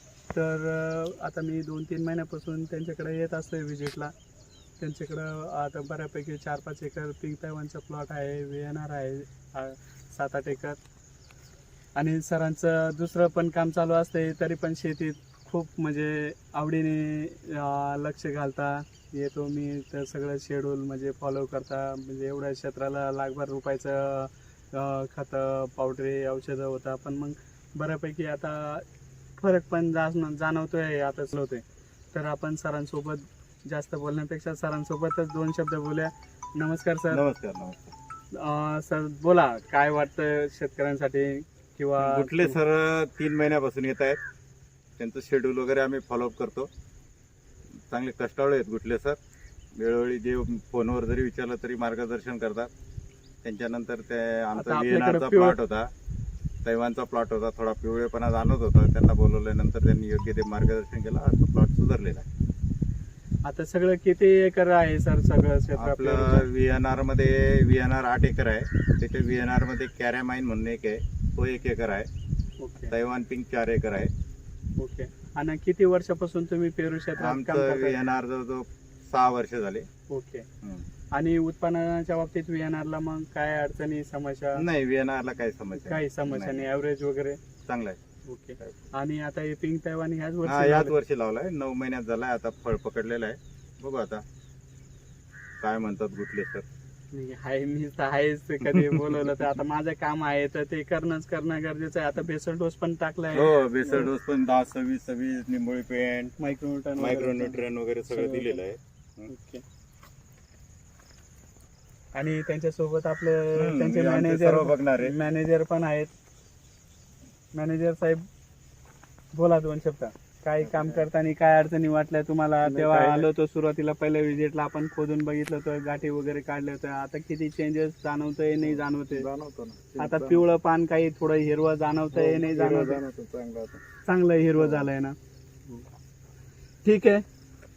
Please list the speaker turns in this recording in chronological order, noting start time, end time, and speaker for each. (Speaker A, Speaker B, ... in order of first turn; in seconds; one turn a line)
Speaker A: 0.3-4.1
Speaker A: 4.8-10.8
Speaker A: 11.9-28.8
Speaker A: 29.4-37.2
Speaker B: 37.1-37.9
Speaker A: 38.3-42.6
Speaker B: 42.0-44.2
Speaker B: 45.0-46.7
Speaker B: 47.9-49.2
Speaker B: 49.8-52.7
Speaker B: 53.4-55.9
Speaker A: 54.5-55.6
Speaker B: 56.6-62.3
Speaker A: 63.4-66.5
Speaker B: 65.8-72.1
Speaker A: 72.6-72.9
Speaker B: 72.9-74.1
Speaker A: 74.8-78.0
Speaker B: 77.2-79.8
Speaker A: 80.1-80.5
Speaker A: 81.1-84.6
Speaker B: 84.5-86.7
Speaker A: 85.7-87.4
Speaker B: 87.7-88.0
Speaker A: 88.2-90.9
Speaker B: 90.5-94.2
Speaker B: 95.6-96.7
Speaker A: 97.1-104.1
Speaker B: 98.6-99.4
Speaker B: 103.3-106.3
Speaker A: 106.4-108.5
Speaker B: 107.0-109.3
Speaker A: 109.3-109.6
Speaker A: 112.1-116.1
Speaker B: 113.5-115.1
Speaker A: 117.5-118.2
Speaker A: 119.3-129.3
Speaker C: 120.6-121.0
Speaker B: 122.7-123.2
Speaker C: 122.8-123.1
Speaker C: 128.8-130.4
Speaker A: 130.0-133.0
Speaker C: 132.1-133.8
Speaker A: 134.0-135.2
Speaker A: 136.8-137.2